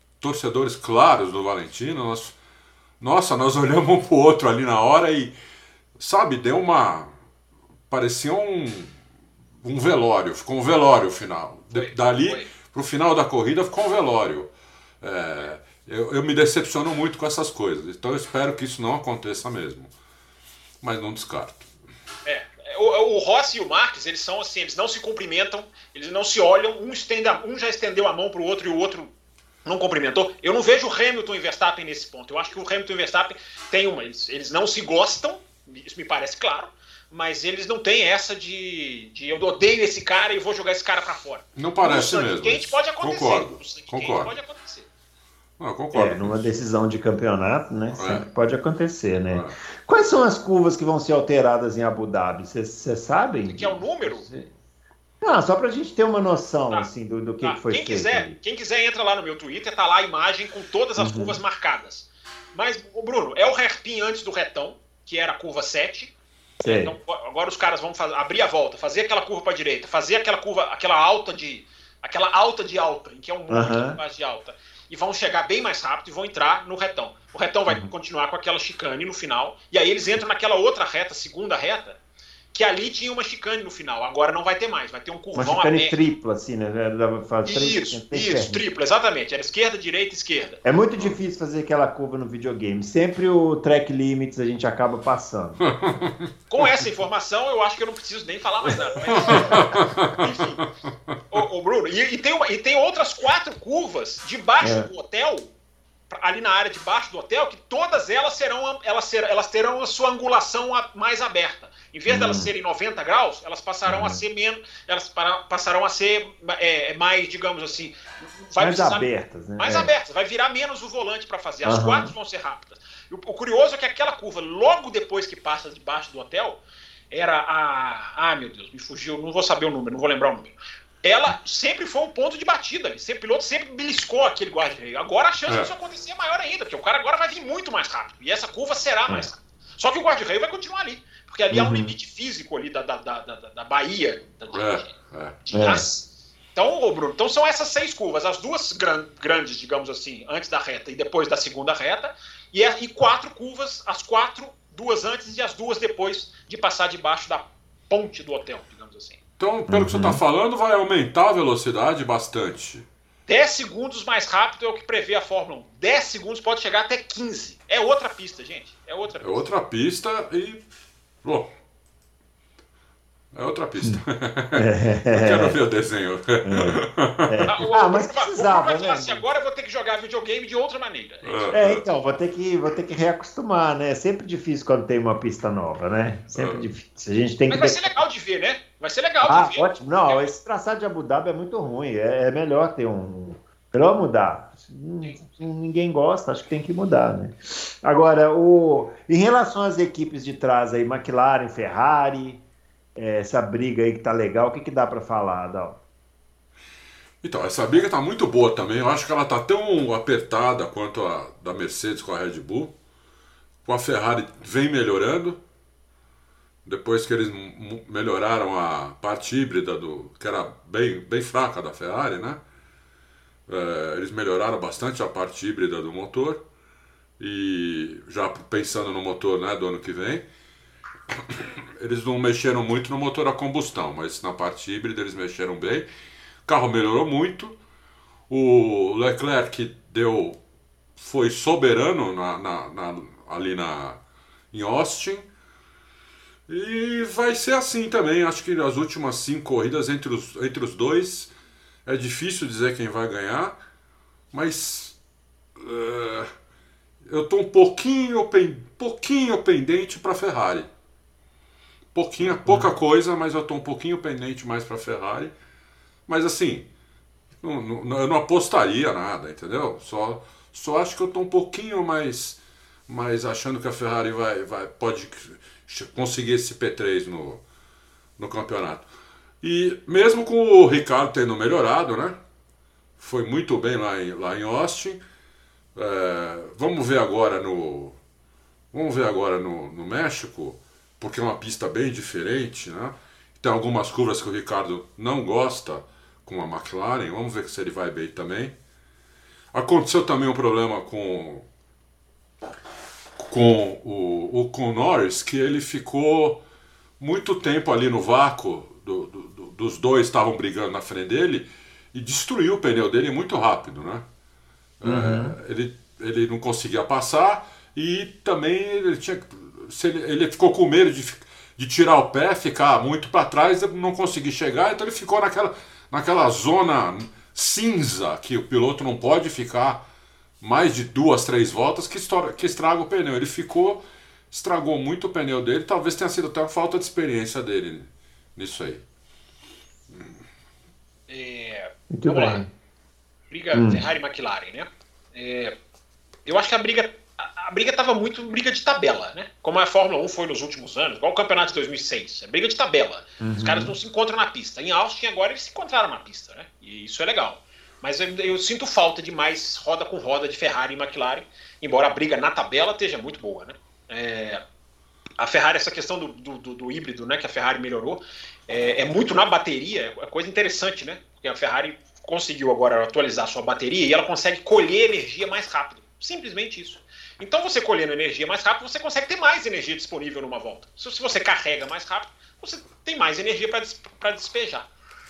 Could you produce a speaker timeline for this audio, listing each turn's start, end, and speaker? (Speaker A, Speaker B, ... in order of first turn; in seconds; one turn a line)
Speaker A: 0.2-2.4
Speaker A: 3.0-5.3
Speaker A: 6.0-7.1
Speaker A: 7.9-8.9
Speaker A: 9.6-19.9
Speaker B: 11.8-12.5
Speaker A: 20.8-21.7
Speaker B: 22.2-29.1
Speaker B: 29.6-44.9
Speaker A: 41.6-44.3
Speaker A: 45.6-46.4
Speaker C: 45.9-54.5
Speaker A: 47.9-48.2
Speaker A: 49.3-49.6
Speaker B: 53.5-54.3
Speaker C: 55.2-58.4
Speaker B: 57.4-82.0
Speaker C: 61.0-61.4
Speaker C: 66.6-66.9
Speaker C: 73.5-74.0
Speaker B: 82.5-86.0
Speaker C: 85.3-88.6
Speaker B: 87.5-90.6
Speaker C: 90.6-95.7
Speaker A: 95.6-96.7
Speaker B: 96.5-100.6
Speaker C: 98.6-99.8
Speaker A: 99.1-100.3
Speaker B: 101.3-105.5
Speaker C: 104.6-104.9
Speaker B: 106.1-119.1
Speaker C: 112.1-112.5
Speaker C: 113.9-114.2
Speaker C: 118.6-119.9
Speaker B: 119.6-144.9
Speaker C: 121.6-122.1
Speaker C: 141.5-141.9
Speaker A: 144.5-145.3
Speaker B: 145.5-159.2
Speaker C: 145.5-145.8
Speaker A: 159.4-162.9
Speaker C: 159.7-160.2
Speaker B: 163.3-169.4
Speaker A: 169.2-170.6
Speaker A: 171.2-171.5
Speaker A: 173.3-177.6
Speaker C: 174.5-175.6
Speaker C: 176.4-179.2
Speaker B: 177.5-181.5
Speaker A: 181.2-181.8
Speaker C: 181.5-188.0
Speaker A: 186.3-186.7
Speaker B: 187.5-190.3
Speaker C: 189.2-202.4
Speaker C: 203.0-205.8
Speaker A: 207.2-212.7
Speaker A: 213.7-215.4
Speaker A: 216.7-222.4
Speaker A: 223.5-226.4
Speaker A: 227.2-230.2
Speaker A: 231.3-235.9
Speaker A: 236.5-237.6
Speaker A: 238.3-240.4
Speaker A: 241.0-244.0
Speaker A: 244.5-245.3
Speaker A: 246.5-251.3
Speaker A: 251.9-253.6
Speaker A: 254.3-254.9
Speaker A: 255.6-256.3
Speaker A: 257.1-260.7
Speaker A: 261.9-265.3
Speaker C: 262.2-262.7
Speaker A: 266.1-266.7
Speaker A: 267.4-277.4
Speaker A: 278.2-278.9
Speaker A: 279.4-282.2
Speaker A: 283.0-285.0
Speaker A: 285.8-288.0
Speaker A: 288.7-298.5
Speaker A: 299.5-301.4
Speaker A: 303.2-306.4
Speaker A: 307.0-314.0
Speaker A: 314.8-329.8
Speaker C: 314.8-315.4
Speaker A: 330.4-333.8
Speaker A: 334.3-338.8
Speaker B: 341.1-342.4
Speaker C: 341.9-342.5
Speaker B: 343.3-345.5
Speaker C: 343.5-343.8
Speaker B: 346.3-364.4
Speaker C: 353.2-353.7
Speaker B: 365.2-384.7